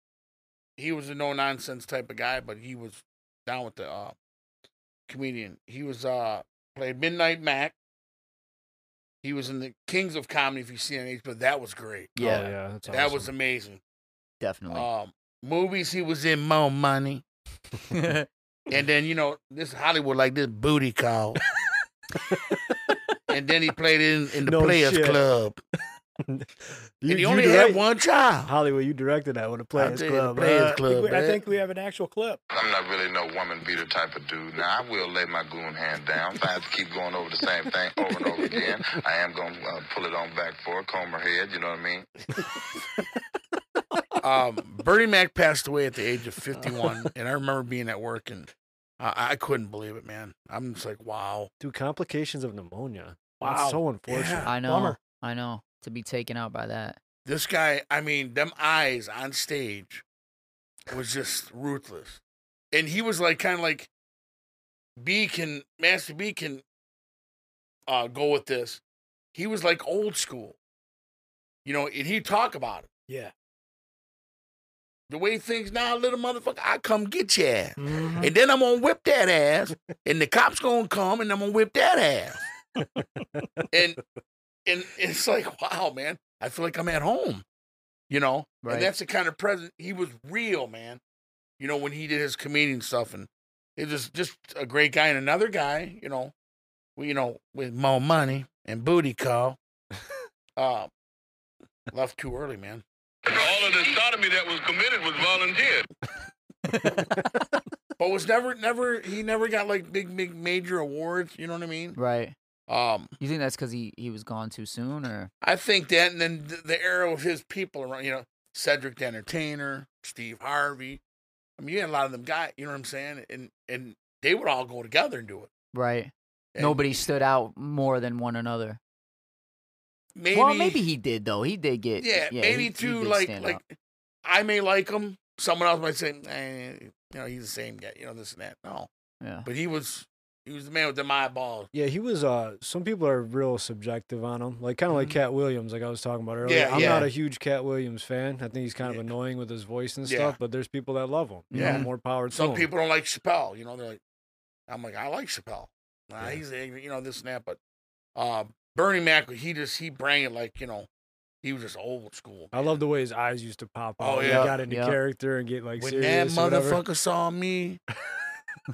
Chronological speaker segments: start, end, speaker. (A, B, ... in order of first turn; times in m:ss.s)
0:00.8-0:04.2 A
0:05.1-0:07.8 A
0:09.2-0:13.8 A
0:12.2-0:12.5 B
0:12.2-0:13.3 C
0:14.4-0:14.9 B
0:14.7-0:17.2 A
0:17.9-0:18.3 B
0:18.7-0:21.4 A
0:23.3-0:25.6 A
0:24.4-0:25.2 C
0:27.0-0:27.8 C
0:27.1-0:28.5 A
0:28.4-0:30.8 C
0:29.8-0:31.4 A
0:30.8-0:32.4 D
0:32.5-0:42.1 E
0:44.2-0:51.5 A
0:51.6-0:54.5 C
0:53.4-0:53.8 D
0:54.1-0:54.5 A
0:54.4-0:55.0 D
0:54.4-0:57.0 B
0:57.2-1:00.0 A
1:00.9-1:02.2 A
1:02.7-1:03.9 A
1:05.0-1:06.6 A
1:07.9-1:08.8 A
1:09.3-1:10.6 A
1:11.6-1:12.9 A
1:13.1-1:13.3 D
1:15.1-1:22.4 A
1:17.8-1:18.3 D
1:23.4-1:23.6 C
1:23.7-1:24.0 A
1:24.7-1:27.4 A
1:28.1-1:31.0 A
1:28.6-1:28.9 B
1:31.6-1:36.3 A
1:37.0-1:39.6 A
1:40.6-1:40.9 A
1:41.9-1:42.8 A
1:43.3-1:45.8 F
1:46.7-1:47.1 B
1:48.0-1:52.0 A
1:52.0-1:52.4 B
1:52.7-1:53.1 A
1:53.2-1:55.3 B
1:55.4-2:01.0 A
2:01.6-2:05.5 A
2:05.7-2:08.8 B
2:06.6-2:07.1 A
2:10.2-2:10.8 A
2:10.3-2:13.6 B
2:12.0-2:18.9 A
2:19.2-2:19.5 B
2:19.4-2:21.7 A
2:21.7-2:32.7 C
2:26.4-2:27.1 A
2:30.1-2:30.4 A
2:31.5-2:31.9 B
2:31.5-2:34.0 A
2:34.7-2:37.6 A
2:38.2-2:40.9 A
2:41.4-2:42.7 A
2:42.5-2:46.8 C
2:44.0-2:44.6 A
2:44.2-2:45.0 B
2:45.8-2:47.8 A